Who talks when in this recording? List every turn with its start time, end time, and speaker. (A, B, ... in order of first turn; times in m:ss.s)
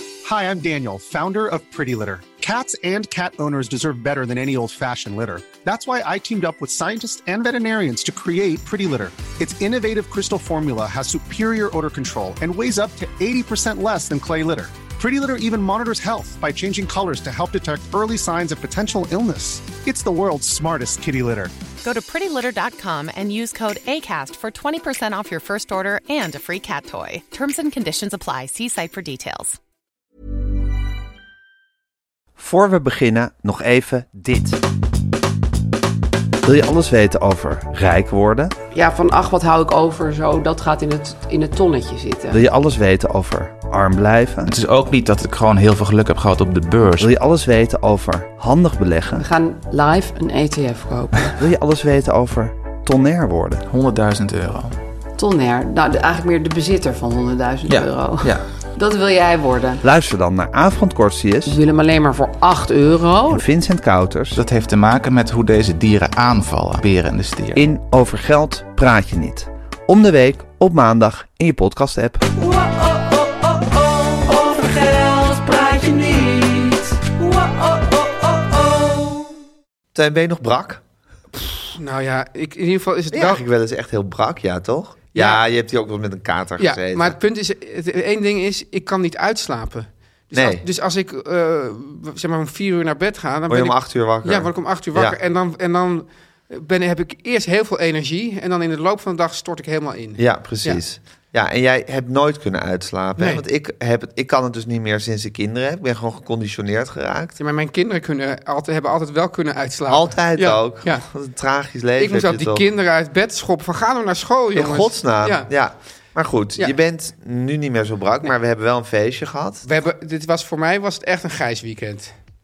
0:00.2-0:21.5 A
0:21.8-0:29.6 B
0:32.4-0:34.6 C
0:36.4-0:38.5 C
0:38.7-0:42.4 D
0:42.3-0:44.5 C
0:44.5-0:47.1 E
0:47.0-0:49.2 C
0:49.2-0:51.4 D
0:51.4-0:53.6 C
0:53.7-0:54.8 E
0:55.2-0:59.8 D
0:59.8-1:01.6 C
1:01.4-1:03.4 D
1:03.3-1:04.4 C
1:04.4-1:07.6 E
1:07.5-1:12.2 C
1:12.5-1:18.8 B
1:19.9-1:20.8 C
1:21.3-1:23.4 F
1:23.1-1:27.2 C
1:25.1-1:25.4 F
1:26.6-1:40.8 F
1:30.3-1:30.6 C
1:33.5-1:35.2 C
1:40.2-1:47.4 C
1:43.2-1:43.4 F
1:47.4-1:51.0 F
1:49.9-1:52.6 C
1:52.0-1:55.5 F
1:54.5-1:59.6 C
1:59.6-2:02.1 F